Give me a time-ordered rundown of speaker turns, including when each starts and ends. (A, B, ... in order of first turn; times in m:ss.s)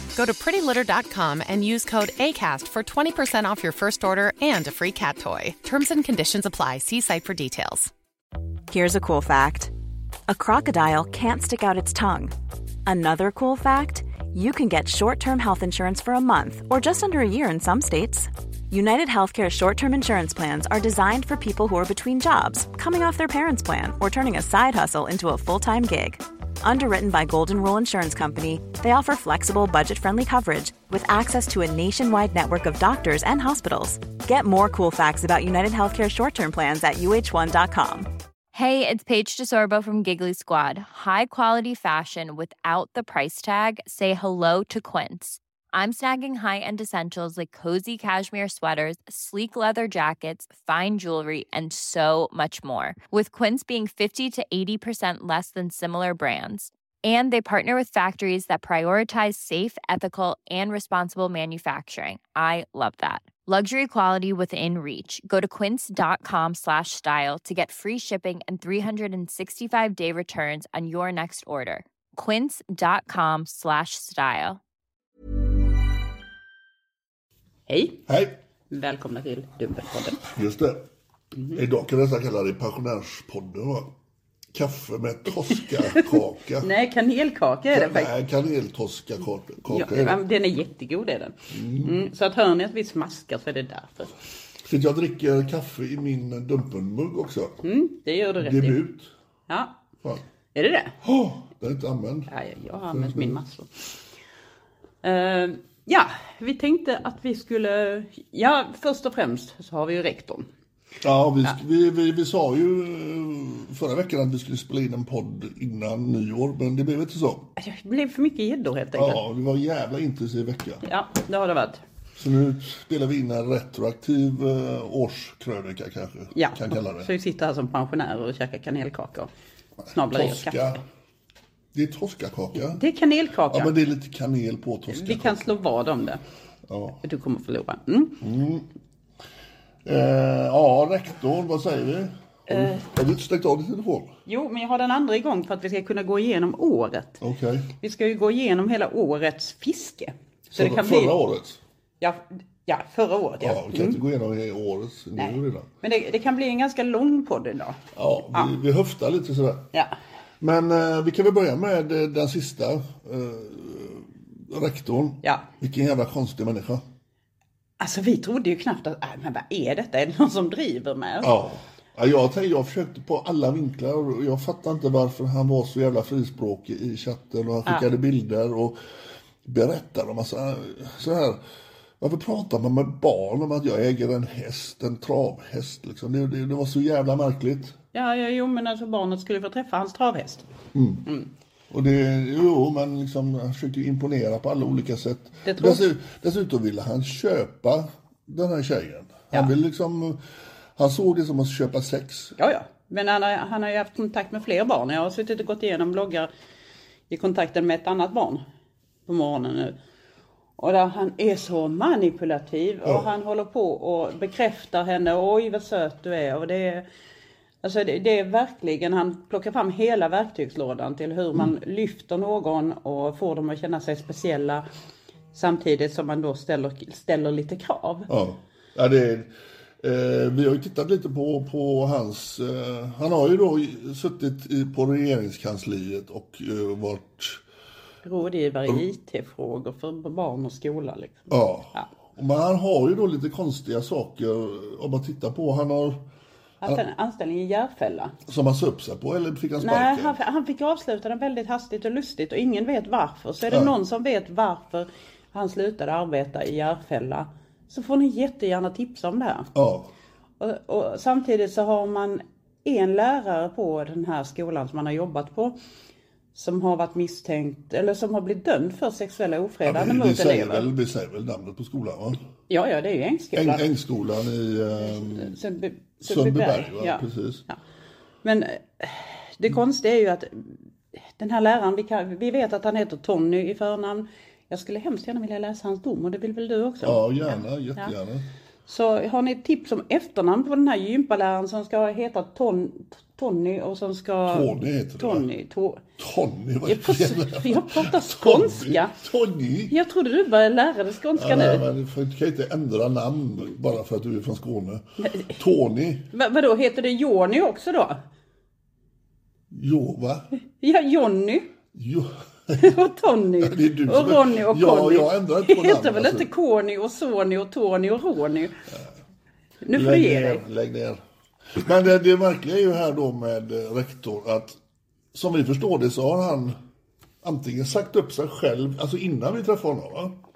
0:00.1-0:07.9 A
0:08.7-0:09.7 B
0:10.3-0:12.3 B
0:12.8-0:38.1 B
0:38.5-1:14.6 C
1:17.7-1:18.0 D
1:18.1-1:18.4 E
1:18.7-1:20.3 D
1:20.2-1:20.9 E
1:21.5-1:23.9 E
1:24.5-1:26.7 E
1:26.6-1:28.1 D
1:27.7-1:30.2 E
1:29.6-1:34.1 D
1:31.5-1:32.0 E
1:34.6-1:37.6 E
1:37.6-1:38.8 D
1:38.4-1:39.1 E
1:39.5-1:39.8 D
1:40.5-1:40.9 D
1:41.0-1:42.3 E
1:42.3-1:43.7 D
1:42.9-1:43.4 E
1:45.0-1:50.5 D
1:51.0-1:57.5 E
1:57.6-1:59.2 D
1:58.9-2:00.8 E
2:00.8-2:01.8 D
2:02.2-2:07.1 E
2:06.3-2:09.3 D
2:09.9-2:10.8 E
2:09.9-2:10.8 D
2:11.7-2:12.8 E
2:12.5-2:13.7 D
2:13.5-2:15.6 E
2:14.9-2:16.2 D
2:16.7-2:17.0 E
2:17.0-2:18.2 D
2:18.2-2:18.7 E
2:19.8-2:24.1 E
2:22.5-2:22.8 D
2:24.2-2:27.2 D
2:27.2-2:27.7 E
2:27.8-2:31.2 D
2:30.5-2:31.6 E
2:32.0-2:34.0 D
2:33.4-2:35.7 E
2:35.2-2:37.8 D
2:37.9-2:39.7 E
2:40.4-2:46.8 E
2:47.8-2:51.3 D
2:51.2-2:58.8 E
2:59.4-3:01.4 E
3:02.0-3:07.8 E
3:07.9-3:10.4 D
3:10.7-3:11.1 E
3:11.7-3:20.2 E
3:15.4-3:15.8 D
3:20.8-3:22.4 E
3:22.4-3:26.3 D
3:27.1-3:28.4 D
3:29.0-3:29.7 D
3:30.6-3:36.8 D
3:37.6-3:44.6 D
3:45.3-3:48.1 D
3:48.1-3:57.4 E
3:58.0-4:01.9 D
4:01.3-4:06.0 E
4:06.6-4:08.1 D
4:08.3-4:10.2 E
4:09.6-4:19.5 D
4:19.5-4:19.9 E
4:20.4-4:25.5 D
4:26.3-4:30.7 D
4:29.6-4:32.2 E
4:32.5-4:33.7 D
4:33.3-4:35.4 E
4:34.8-4:37.6 D
4:36.0-4:37.4 E
4:38.2-4:40.6 D
4:41.2-4:47.9 D
4:46.8-4:48.3 E
4:48.7-4:55.8 D
4:54.3-4:55.3 E
4:56.0-4:59.7 E
4:56.6-4:58.9 D
4:59.7-5:01.6 D
5:01.1-5:06.1 E
5:05.0-5:05.4 D
5:06.1-5:08.0 D
5:09.5-5:10.3 E
5:10.6-5:11.5 D
5:11.7-5:12.7 E
5:12.6-5:18.5 D
5:13.4-5:16.3 E
5:19.6-5:20.4 D
5:19.7-5:21.0 E
5:21.5-5:24.6 E
5:25.1-5:26.6 E
5:27.2-5:30.2 E